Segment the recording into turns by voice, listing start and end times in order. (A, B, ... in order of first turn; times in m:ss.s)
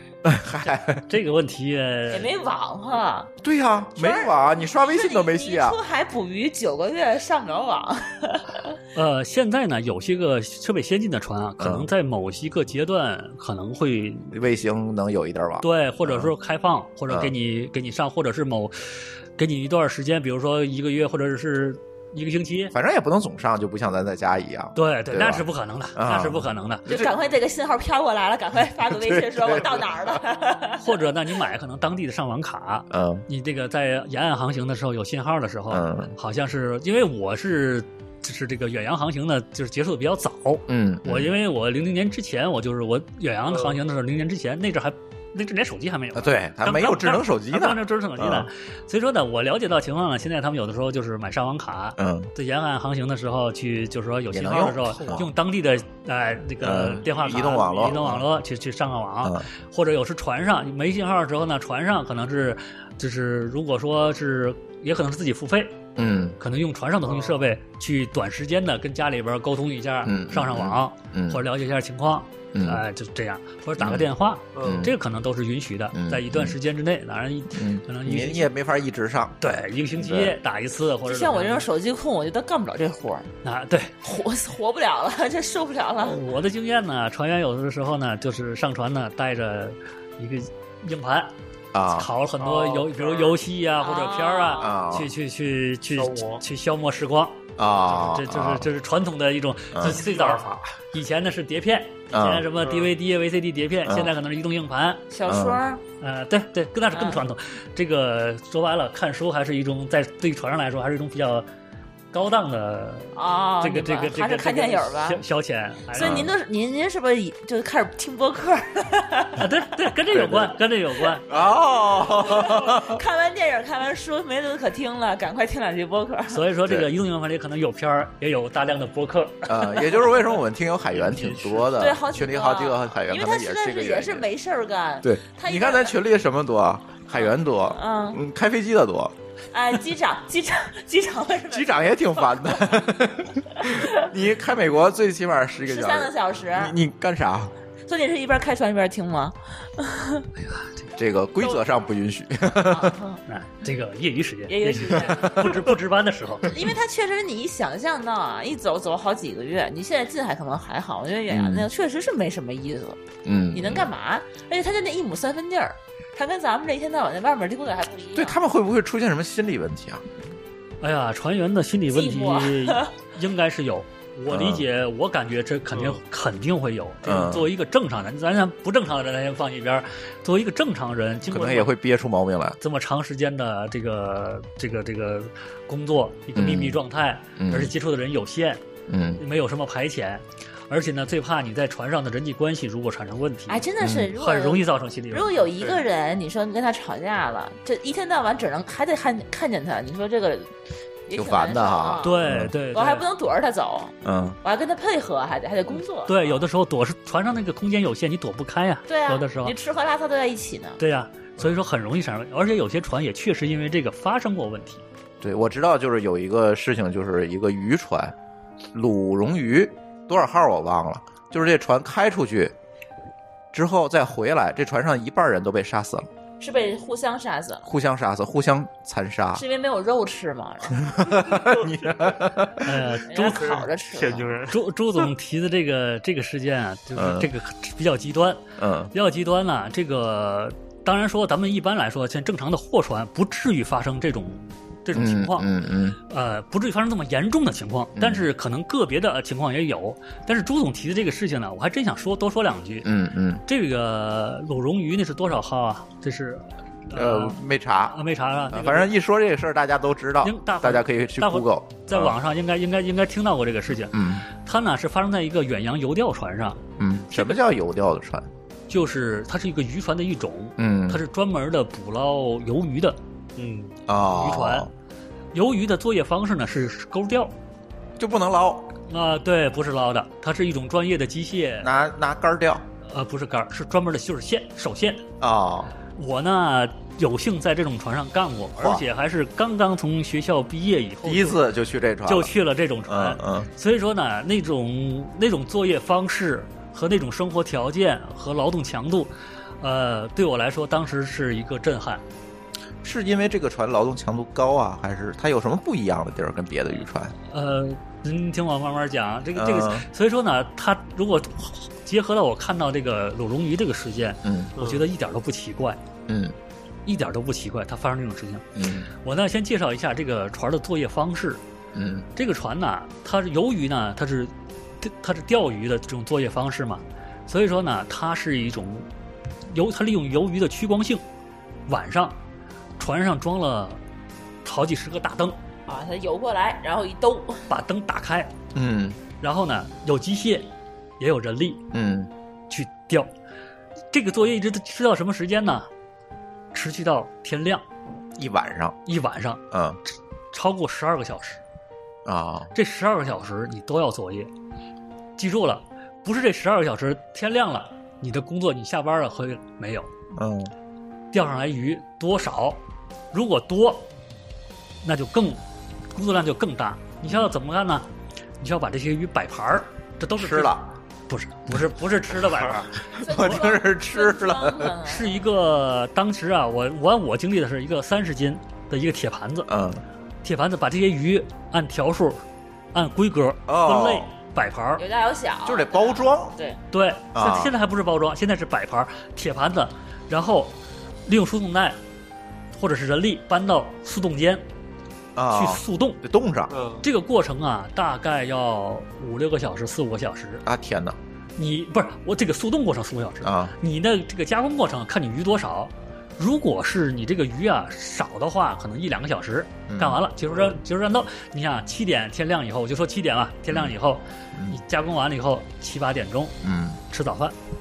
0:00.2-0:01.0 A
0:01.0-0:02.3 B
0:02.1-0:03.3 C
0:03.4-0:05.8 A
0:04.0-0:08.8 C
0:08.9-0:14.3 B
0:11.6-0:11.9 A
0:14.3-0:16.3 A
0:15.6-0:22.7 B
0:17.1-0:17.3 A
0:22.7-0:27.1 A
0:24.7-0:26.8 B
0:26.8-0:30.9 C
0:28.9-0:30.2 A
0:30.8-1:18.5 B
0:32.9-0:33.2 A
0:35.7-0:36.1 A
0:40.7-0:41.3 A
0:43.5-0:43.8 D
0:46.1-0:48.5 A
0:52.0-0:52.3 A
0:54.3-0:55.3 A
0:56.6-0:58.3 A
1:06.0-1:06.4 A
1:07.0-1:07.4 D
1:10.0-1:11.4 A
1:12.5-1:12.8 A
1:13.8-1:15.0 A
1:14.5-1:14.9 D
1:15.9-1:16.6 A
1:17.5-1:19.4 A
1:19.4-1:21.7 B
1:20.0-1:20.4 A
1:21.0-1:23.3 C
1:23.4-1:23.9 B
1:24.0-1:26.2 C
1:26.0-1:31.3 B
1:31.7-1:32.1 A
1:31.9-1:45.0 B
1:32.4-1:33.4 D
1:33.8-1:34.8 C
1:34.6-1:35.1 A
1:35.9-1:36.4 D
1:37.6-1:38.7 A
1:39.7-1:40.0 A
1:39.8-1:40.5 D
1:42.1-1:42.5 A
1:42.6-1:42.9 D
1:43.8-1:44.1 A
1:45.1-1:45.8 C
1:45.2-1:45.6 A
1:46.0-1:51.5 B
1:46.9-1:47.2 C
1:52.1-1:56.3 B
1:53.1-1:55.2 C
1:55.9-1:59.5 C
1:56.0-1:56.3 A
1:59.4-2:01.2 B
2:00.1-2:00.6 A
2:01.3-2:03.0 A
2:01.9-2:06.4 C
2:06.3-2:09.8 B
2:09.4-2:14.3 A
2:10.9-2:11.8 D
2:11.7-2:16.0 C
2:15.0-2:19.1 A
2:17.1-2:18.2 C
2:19.5-2:22.9 C
2:21.5-2:27.5 A
2:23.6-2:24.1 C
2:25.6-2:26.8 C
2:27.9-2:30.3 C
2:30.4-2:30.9 B
2:31.0-2:33.0 A
2:32.6-2:33.2 C
2:33.3-2:36.5 B
2:34.5-2:35.6 C
2:36.4-2:48.4 C
2:41.3-2:41.7 A
2:43.2-2:43.9 A
2:48.1-2:50.0 A
2:50.8-3:01.7 B
2:51.9-2:52.9 C
2:54.3-2:54.6 A
2:55.7-2:56.0 D
2:57.0-2:57.5 A
3:01.2-3:02.6 A
3:02.6-3:08.6 B
3:06.3-3:06.8 A
3:07.4-3:07.7 A
3:08.9-3:09.2 A
3:09.2-3:15.4 B
3:13.5-3:20.5 C
3:13.8-3:14.1 A
3:21.1-3:26.4 C
3:21.1-3:22.5 A
3:22.0-3:23.0 B
3:24.0-3:24.4 A
3:26.0-3:29.5 B
3:28.9-3:30.8 C
3:30.8-3:34.8 B
3:35.2-3:38.1 A
3:38.7-3:42.5 A
3:43.5-3:46.1 A
3:46.4-3:47.7 C
3:47.6-3:49.4 A
3:49.3-3:51.3 C
3:50.7-3:52.8 A
3:52.6-3:53.6 B
3:53.0-3:54.3 C
3:53.2-3:55.0 D
3:54.5-4:05.5 B
3:57.0-3:57.3 A
3:58.6-3:58.9 A
4:04.9-4:06.0 A
4:06.0-4:12.9 B
4:08.0-4:08.3 A
4:12.8-4:13.4 A
4:13.4-4:18.9 B
4:16.9-4:18.0 A
4:18.5-4:22.2 A
4:20.2-4:27.4 B
4:23.9-4:24.2 A
4:26.8-4:28.3 A
4:28.7-4:33.0 B
4:30.6-4:31.0 A
4:33.4-4:33.8 D
4:33.9-4:34.7 A
4:34.1-4:34.7 B
4:35.3-4:37.3 B
4:38.0-4:38.7 A
4:38.9-4:41.7 B
4:41.6-4:42.6 A
4:42.8-4:45.0 B
4:45.2-4:45.7 A
4:46.0-4:51.4 B
4:48.6-4:48.8 A
4:51.0-4:52.3 A
4:52.0-5:02.0 B
4:52.9-4:53.5 A
5:02.8-5:07.1 A
5:07.3-5:15.8 B
5:09.3-5:09.8 A
5:14.2-5:14.5 A
5:14.6-5:14.9 D
5:16.1-5:16.4 A
5:16.8-5:21.4 B
5:18.5-5:18.9 A
5:21.7-5:22.1 A
5:22.1-5:28.9 B
5:29.5-5:31.0 B
5:31.7-5:32.2 B
5:32.8-5:33.8 B
5:34.4-5:35.4 B
5:35.7-5:37.5 C
5:37.5-5:38.3 B
5:38.5-5:39.0 A
5:39.2-5:41.6 B
5:41.7-5:42.1 A
5:42.5-5:43.1 B
5:43.9-5:45.7 B
5:46.5-5:47.6 B
5:48.2-5:48.8 A
5:48.8-5:49.4 B
5:49.5-5:49.8 A
5:50.3-5:51.4 B
5:52.0-5:52.5 A
5:52.5-5:54.3 B
5:55.2-5:59.9 B
6:00.1-6:00.5 A
6:01.1-6:02.6 B
6:03.1-6:03.9 B
6:04.8-6:07.9 B
6:08.4-6:13.4 B
6:10.2-6:10.6 A
6:13.0-6:14.8 A
6:13.0-6:15.2 C
6:14.8-6:19.5 B
6:19.5-6:19.8 A
6:20.2-6:24.8 B
6:23.5-6:24.1 A
6:24.8-6:26.6 C
6:25.4-6:26.4 A
6:26.7-6:31.8 B
6:27.1-6:27.5 A
6:32.5-6:34.4 B
6:35.2-6:36.5 A
6:35.3-6:36.0 B
6:36.5-6:36.9 D
6:36.8-6:40.4 B
6:40.4-6:41.0 A
6:41.4-6:56.4 B
6:43.2-6:43.5 A
6:49.7-6:50.0 A
6:50.3-6:50.6 D
6:53.5-6:53.8 A
6:54.3-6:54.6 A
6:56.4-6:56.8 A
6:56.9-6:57.4 B